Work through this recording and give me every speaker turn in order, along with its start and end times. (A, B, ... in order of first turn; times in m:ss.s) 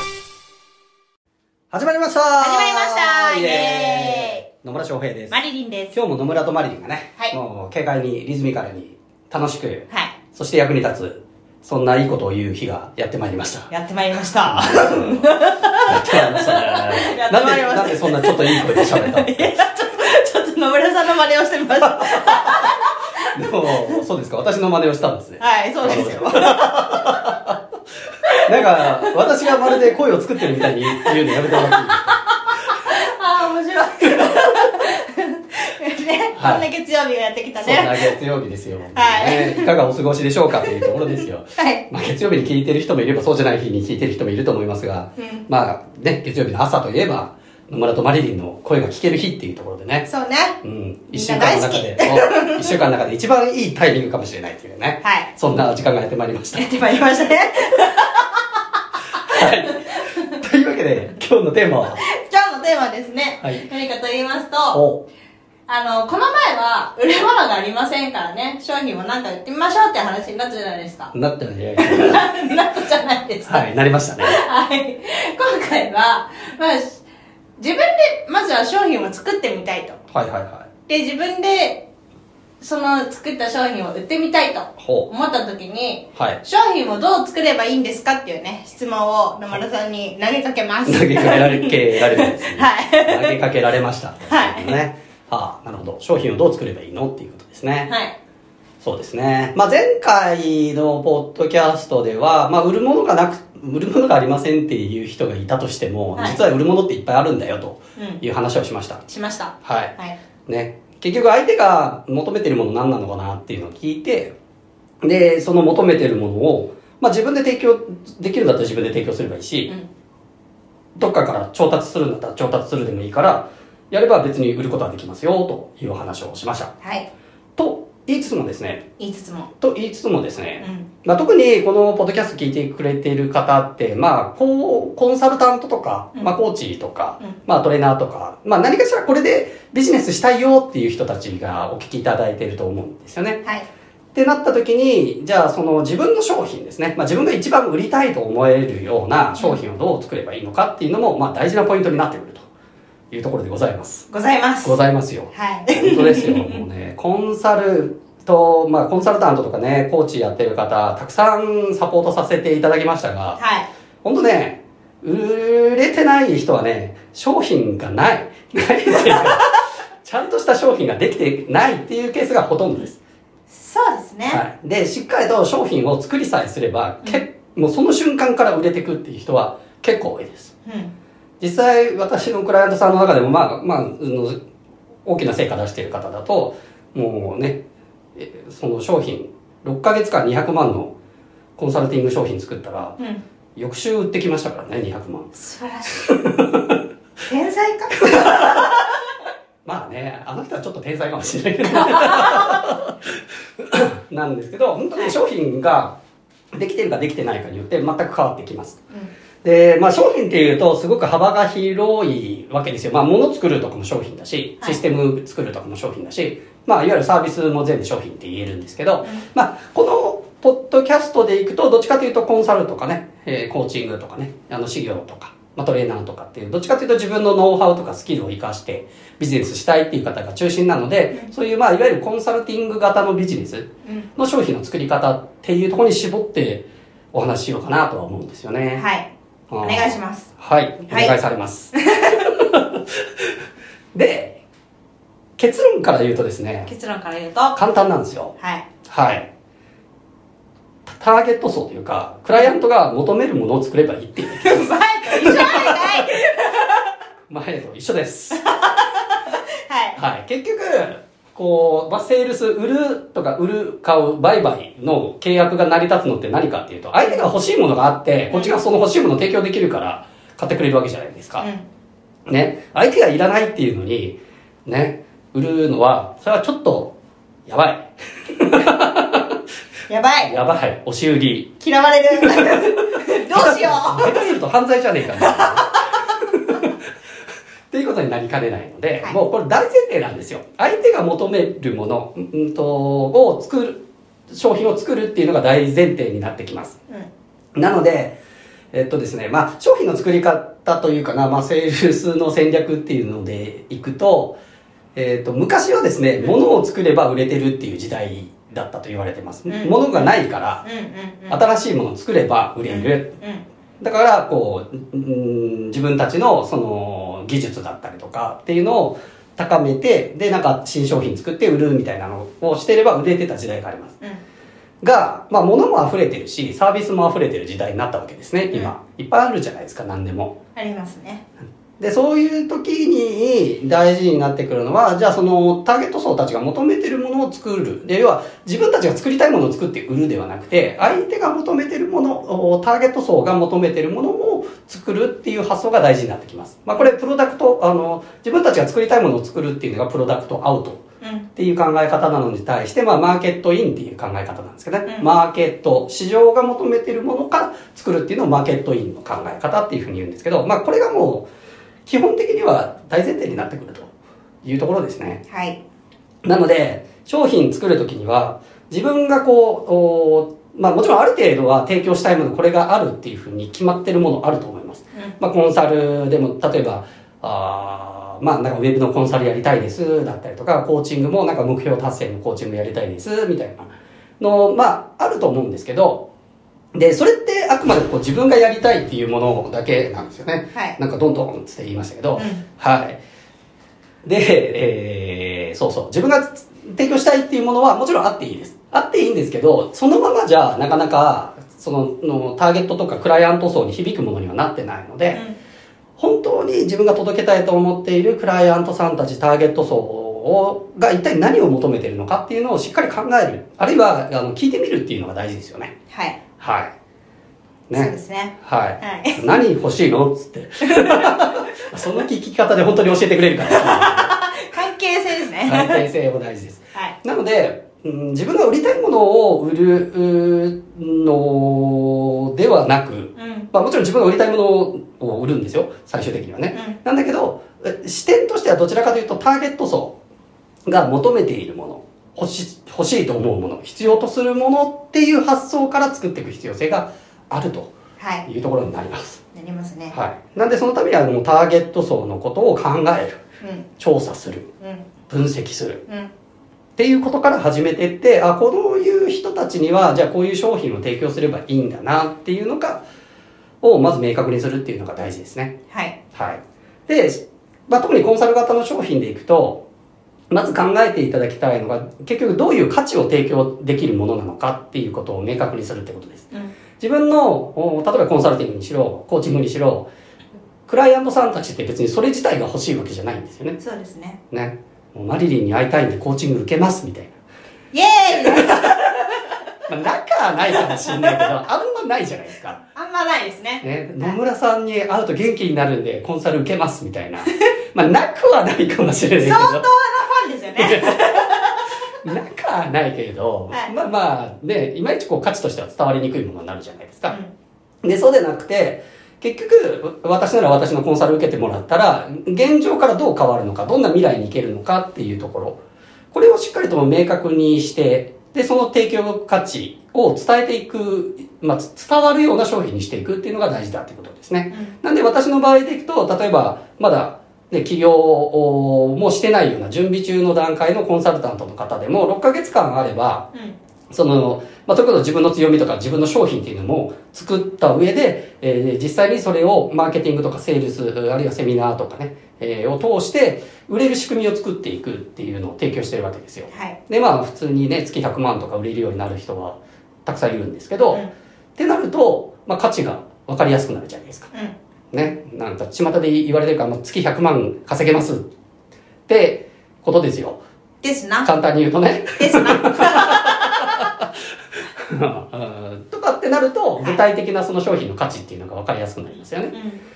0:01.7-0:05.4 A
0:02.4-0:04.4 B
0:05.3-0:06.0 B
0:05.9-0:13.7 A
0:09.9-0:10.2 B
0:13.7-0:22.9 B
0:14.4-0:15.2 A
0:15.9-0:19.6 A
0:22.0-0:22.5 A
0:23.3-0:27.5 A
0:23.6-0:24.0 B
0:25.4-0:27.2 B
0:28.4-0:32.2 A
0:29.2-0:29.8 B
0:31.0-0:31.8 B
0:32.9-0:38.1 B
0:36.3-0:36.6 A
0:37.6-0:50.1 A
0:38.9-0:39.7 B
0:40.6-0:41.0 B
0:41.6-0:41.8 B
0:45.2-0:45.5 B
0:50.0-0:50.6 B
0:50.6-0:56.7 A
0:51.1-0:52.7 B
0:55.0-0:55.3 B
0:56.5-0:58.6 B
0:59.2-1:02.0 A
0:59.3-1:00.2 B
1:02.0-1:04.8 B
1:04.7-1:05.0 A
1:05.7-1:11.1 B
1:11.1-1:12.2 A
1:11.8-1:13.7 B
1:13.4-1:14.4 A
1:14.2-1:17.0 B
1:17.6-1:20.0 B
1:20.1-1:20.7 A
1:20.9-1:21.8 B
1:22.6-1:33.4 B
1:24.8-1:25.1 A
1:26.1-1:26.4 A
1:30.8-1:37.9 A
1:34.3-1:34.8 B
1:37.9-1:38.1 B
1:38.8-1:49.0 A
1:46.1-1:46.4 B
1:48.0-1:48.2 B
1:49.1-1:50.2 B
1:49.6-1:49.9 A
1:50.5-1:54.3 A
1:55.0-1:59.7 A
2:01.0-2:06.7 A
2:06.8-2:07.1 B
2:07.6-2:08.8 A
2:09.0-2:09.5 B
2:09.6-2:23.4 A
2:10.6-2:10.9 B
2:24.1-2:32.5 A
2:33.1-2:34.1 A
2:34.1-2:34.8 B
2:34.6-2:43.4 A
2:35.3-2:36.6 B
2:43.4-2:43.7 B
2:44.0-2:53.0 A
2:49.0-2:49.4 B
2:53.5-2:54.4 B
2:54.3-3:00.5 A
3:00.6-3:00.9 B
3:01.4-3:04.4 A
3:05.0-3:07.6 A
3:08.2-3:10.9 A
3:11.6-3:13.0 A
3:13.6-3:15.3 A
3:15.3-3:16.1 B
3:16.0-3:16.6 A
3:17.3-3:18.9 B
3:18.1-3:18.6 A
3:19.6-3:22.9 A
3:22.1-3:22.4 B
3:23.6-3:26.0 A
3:26.5-3:28.8 A
3:29.4-3:58.8 A
3:58.7-3:59.1 B
3:59.5-4:01.7 A
3:59.6-4:00.3 B
4:00.9-4:01.1 B
4:01.7-4:02.2 B
4:02.3-4:02.8 A
4:03.9-4:04.4 A
4:05.4-4:06.7 A
4:06.6-4:07.6 B
4:07.5-4:09.3 A
4:08.4-4:08.7 B
4:10.8-4:15.9 A
4:14.2-4:16.9 B
4:17.3-4:18.4 A
4:18.3-4:20.0 B
4:20.0-4:31.5 A
4:28.3-4:28.6 B
4:31.4-4:31.6 B
4:32.3-4:36.9 A
4:37.5-4:39.3 A
4:39.9-4:40.3 B
4:40.2-4:41.6 A
4:41.6-4:44.3 B
4:42.2-4:42.6 A
4:43.3-4:46.7 A
4:45.2-4:45.7 B
4:47.7-4:56.8 A
4:57.6-4:58.2 A
4:58.7-5:04.4 A
5:04.9-5:10.6 A
5:09.5-5:11.4 B
5:11.3-5:13.1 A
5:12.7-5:13.4 B
5:13.8-5:23.9 A
5:24.8-5:30.3 A
5:30.6-5:31.2 B
5:31.8-5:50.8 A
5:51.0-5:51.3 B
5:51.4-6:01.3 A
6:01.8-6:03.9 A
6:04.4-6:05.2 A
6:05.3-6:05.6 B
6:06.2-6:26.0 A
6:26.7-6:33.0 A
6:32.1-6:32.4 B
6:34.0-6:45.2 A
6:46.0-6:55.7 A
6:55.9-6:56.2 B
6:56.4-6:56.7 A
6:57.7-7:04.1 A
6:57.7-6:59.3 B
7:00.6-7:01.2 B
7:03.5-7:05.8 B
7:05.4-7:20.0 A
7:13.2-7:13.5 B
7:16.5-7:16.8 B
7:20.7-7:27.7 A
7:28.0-7:28.3 B
7:28.2-7:29.2 A
7:29.3-7:29.9 B
7:29.9-7:33.2 A
7:33.4-7:33.7 B
7:33.8-7:34.5 A
7:34.6-7:34.9 B
7:35.1-7:35.8 A
7:36.8-7:42.8 A
7:43.6-7:45.5 A
7:45.7-7:46.0 B
7:46.1-7:49.6 A
7:50.3-7:56.3 A
7:56.8-7:59.9 A
8:00.6-8:03.6 A
8:03.6-8:04.2 B
8:04.3-8:07.1 A
8:07.7-8:09.0 B
8:09.7-8:12.6 A
8:10.5-8:11.3 B
8:12.7-8:14.2 B
8:13.6-8:19.6 A
8:19.2-8:21.7 B
8:20.6-8:21.3 A
8:22.0-8:27.2 A
8:27.8-8:35.6 A
8:36.1-8:53.3 A
8:44.5-8:44.7 B
8:53.9-9:11.0 A
9:06.5-9:06.8 B
9:11.6-9:14.3 A
9:14.9-9:18.2 A
9:19.1-9:20.4 A
9:20.8-9:21.3 B
9:21.2-9:24.1 A
9:22.2-9:23.8 B
9:24.8-9:29.5 A
9:29.5-9:29.8 B